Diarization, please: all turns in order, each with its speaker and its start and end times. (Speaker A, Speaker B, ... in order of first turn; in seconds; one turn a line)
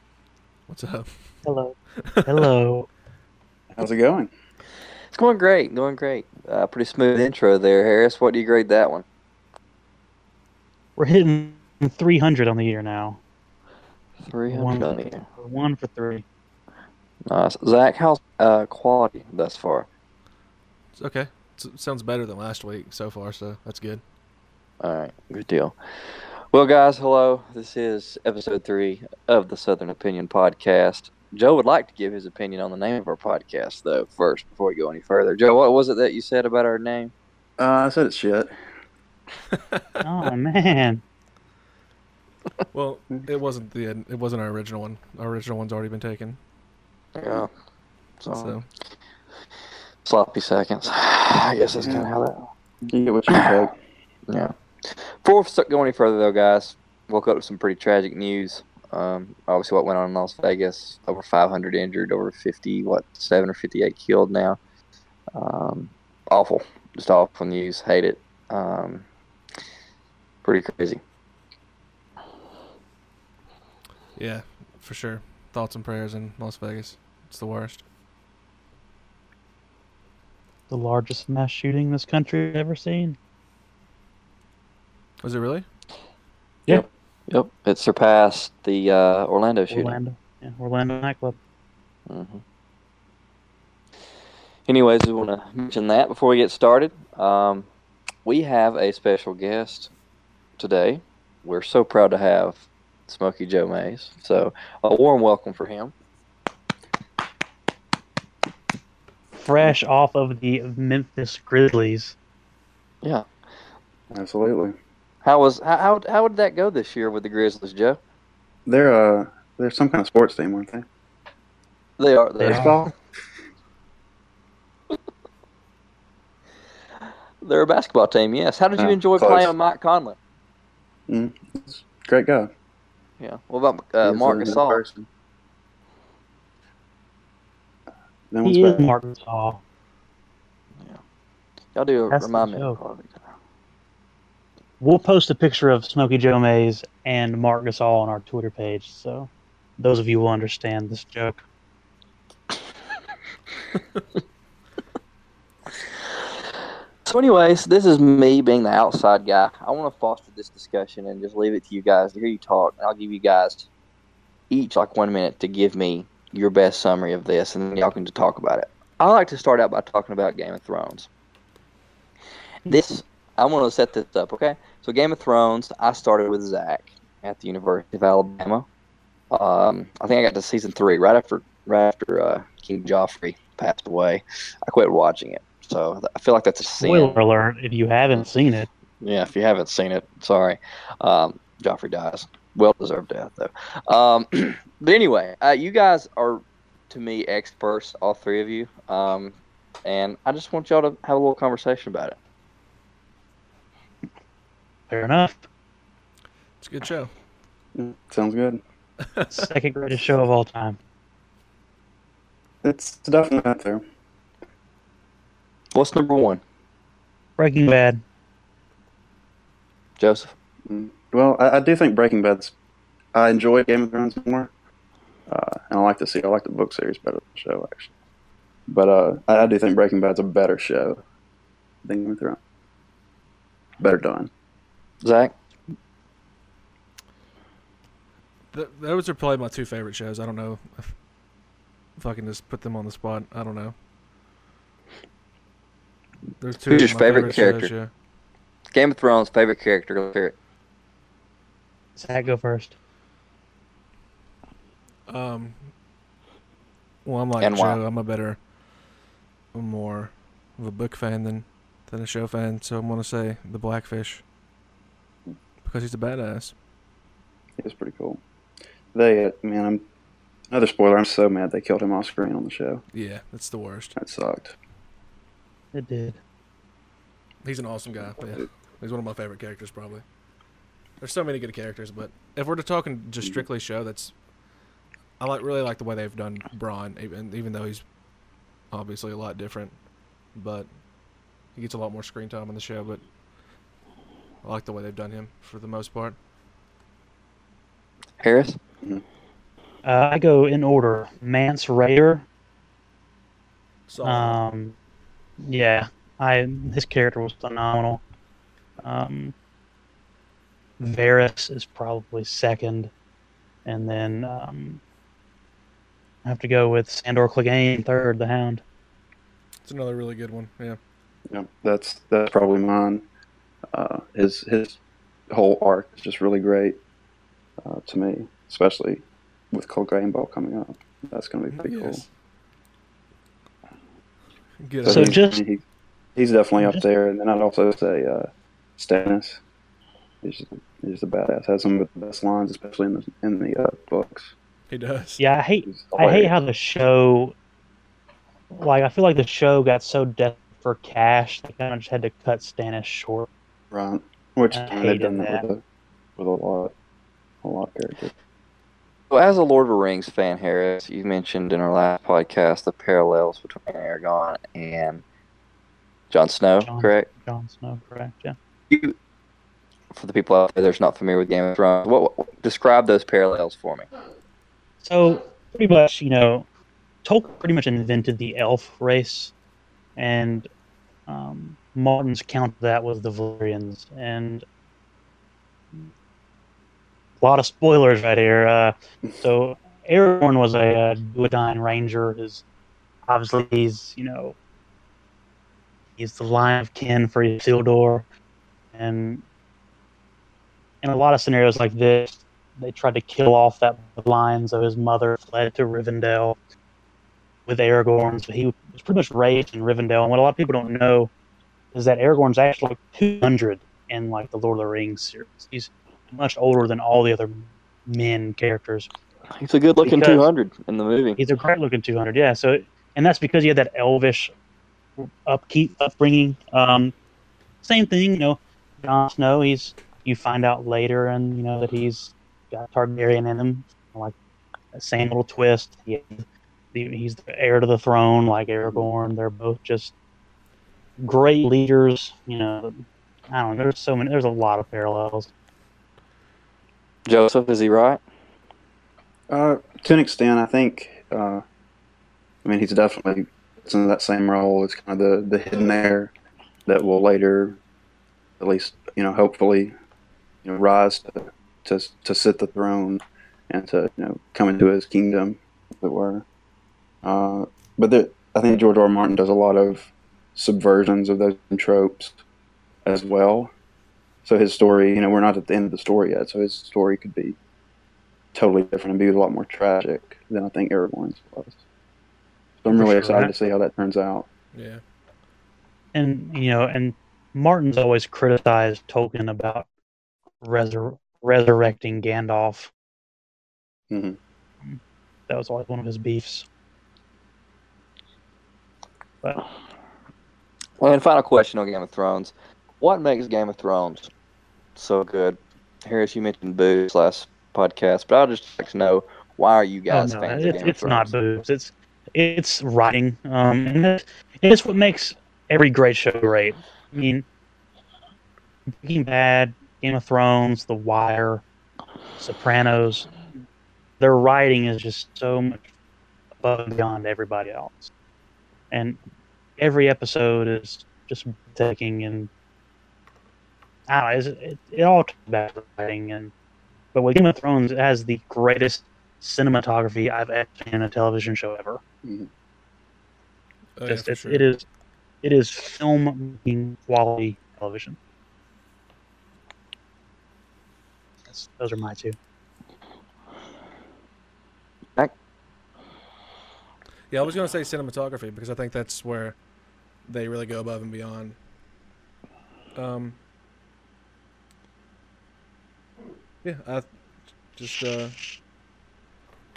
Speaker A: 0.7-1.1
Speaker B: 1.4-2.9
Speaker A: 2.0-2.5
Speaker C: 3.7-4.3
Speaker D: 5.1-9.1
Speaker B: 11.0-13.2
Speaker D: 14.2-15.2
Speaker B: 14.5-16.2
Speaker D: 17.3-19.9
Speaker A: 21.0-24.0
Speaker D: 24.8-25.8
Speaker D: 26.5-37.1
Speaker C: 37.6-38.5
Speaker A: 39.5-40.3
Speaker B: 40.0-41.0
Speaker A: 42.7-46.4
Speaker D: 47.1-47.5
Speaker D: 48.2-48.5
Speaker A: 48.3-48.7
Speaker D: 50.0-52.4
Speaker C: 51.8-52.2
Speaker C: 52.8-53.7
Speaker D: 54.3-64.6
Speaker D: 65.3-69.0
Speaker D: 70.4-71.0
Speaker A: 74.2-77.8
Speaker B: 80.7-83.2
Speaker A: 85.2-85.7
Speaker D: 86.7-90.0
Speaker B: 89.7-91.4
Speaker D: 92.1-92.4
Speaker D: 94.7-97.7
Speaker D: 98.2-99.9
Speaker D: 100.6-105.9
Speaker B: 109.3-112.2
Speaker C: 114.1-114.8
Speaker D: 115.2-118.0
Speaker C: 118.7-120.8
Speaker D: 122.0-122.9
Speaker B: 122.4-122.9
Speaker D: 127.4-130.2
Speaker C: 128.8-129.5
Speaker C: 131.1-132.5
Speaker D: 133.2-134.8
Speaker C: 134.0-135.1
Speaker C: 138.3-138.9
Speaker B: 138.4-139.6
Speaker D: 141.8-143.2
Speaker B: 142.1-142.8
Speaker B: 144.8-151.4
Speaker D: 157.1-163.7
Speaker D: 164.5-171.1
Speaker D: 172.7-178.7
Speaker D: 179.3-187.2
Speaker B: 186.8-188.7
Speaker D: 189.0-202.2
Speaker B: 204.9-205.4
Speaker A: 206.6-207.1
Speaker C: 207.8-208.6
Speaker A: 209.0-209.5
Speaker B: 209.3-210.8
Speaker C: 212.6-213.8
Speaker D: 215.7-216.4
Speaker B: 217.4-218.0
Speaker D: 220.0-220.3
Speaker C: 220.7-222.5
Speaker C: 223.1-224.5
Speaker C: 225.3-227.9
Speaker C: 228.7-231.0
Speaker C: 231.8-232.4
Speaker C: 233.8-234.3
Speaker D: 235.0-235.3
Speaker A: 238.5-240.9
Speaker A: 242.0-243.7
Speaker A: 246.4-247.9
Speaker D: 246.7-247.7
Speaker D: 248.7-250.3
Speaker B: 252.0-252.7
Speaker A: 255.1-255.6
Speaker A: 257.1-258.4
Speaker D: 257.4-257.8
Speaker A: 259.5-264.2
Speaker A: 265.6-266.5
Speaker C: 267.6-268.2
Speaker C: 268.9-269.8
Speaker C: 270.5-272.8
Speaker A: 272.9-273.9
Speaker C: 274.0-274.6
Speaker B: 275.7-276.2
Speaker A: 277.4-280.0
Speaker A: 281.0-284.1
Speaker A: 285.2-287.8
Speaker A: 288.7-289.8
Speaker A: 290.4-290.7
Speaker A: 291.6-293.0
Speaker A: 294.4-296.2
Speaker D: 298.2-298.6
Speaker B: 299.8-302.2
Speaker A: 303.9-304.4
Speaker B: 304.0-304.8
Speaker B: 305.4-308.0
Speaker B: 308.8-309.3
Speaker B: 310.8-312.9
Speaker B: 313.7-314.8
Speaker B: 316.2-318.6
Speaker A: 319.6-320.8
Speaker C: 321.3-323.0
Speaker C: 323.7-324.8
Speaker C: 325.3-326.8
Speaker C: 327.6-332.0
Speaker A: 331.5-332.1
Speaker A: 334.6-335.2
Speaker C: 334.8-335.6
Speaker B: 334.9-335.4
Speaker C: 336.2-339.4
Speaker C: 340.2-344.3
Speaker A: 344.7-345.2
Speaker B: 345.2-347.3
Speaker C: 345.7-346.4
Speaker B: 348.5-353.3
Speaker C: 353.7-355.6
Speaker B: 354.5-355.4
Speaker C: 356.2-356.7
Speaker C: 357.4-358.1
Speaker D: 359.1-365.0
Speaker D: 366.1-367.1
Speaker B: 366.6-368.4
Speaker D: 368.7-369.0
Speaker D: 369.9-373.9
Speaker B: 374.8-376.5
Speaker B: 377.0-379.3
Speaker B: 380.0-380.5
Speaker B: 381.1-384.4
Speaker B: 387.2-392.4
Speaker B: 393.1-394.4
Speaker B: 396.0-398.1
Speaker B: 398.7-399.2
Speaker B: 400.8-406.4
Speaker B: 407.5-411.1
Speaker B: 411.7-418.9
Speaker D: 419.4-421.2
Speaker B: 419.8-420.3
Speaker B: 421.2-424.3
Speaker B: 425.0-426.9
Speaker B: 427.6-434.1
Speaker B: 434.7-439.9
Speaker C: 438.6-438.9
Speaker B: 441.0-445.3
Speaker D: 447.1-448.0
Speaker C: 449.3-451.4
Speaker C: 452.4-456.1
Speaker C: 456.7-457.6
Speaker C: 458.4-459.7
Speaker C: 460.4-466.2
Speaker C: 467.0-472.2
Speaker C: 472.9-473.5
Speaker C: 474.2-477.4
Speaker C: 478.3-481.6
Speaker C: 482.6-484.3
Speaker B: 482.7-483.3
Speaker A: 484.5-484.8
Speaker B: 485.9-489.7
Speaker B: 490.4-492.7
Speaker C: 493.9-494.2
Speaker B: 494.6-496.5
Speaker D: 500.8-504.1
Speaker D: 504.8-511.1
Speaker B: 509.9-517.2
Speaker B: 518.7-521.4
Speaker B: 522.2-523.1
Speaker B: 524.0-525.7
Speaker B: 526.4-527.9
Speaker B: 528.7-529.0
Speaker B: 529.6-532.3
Speaker B: 533.9-536.3
Speaker B: 536.9-541.8
Speaker C: 542.0-542.3
Speaker A: 543.8-544.5
Speaker B: 543.9-544.7
Speaker B: 545.2-548.0
Speaker B: 551.3-552.2
Speaker A: 557.1-559.4
Speaker A: 560.1-561.4
Speaker A: 562.8-563.2
Speaker A: 566.4-566.9
Speaker A: 567.5-568.2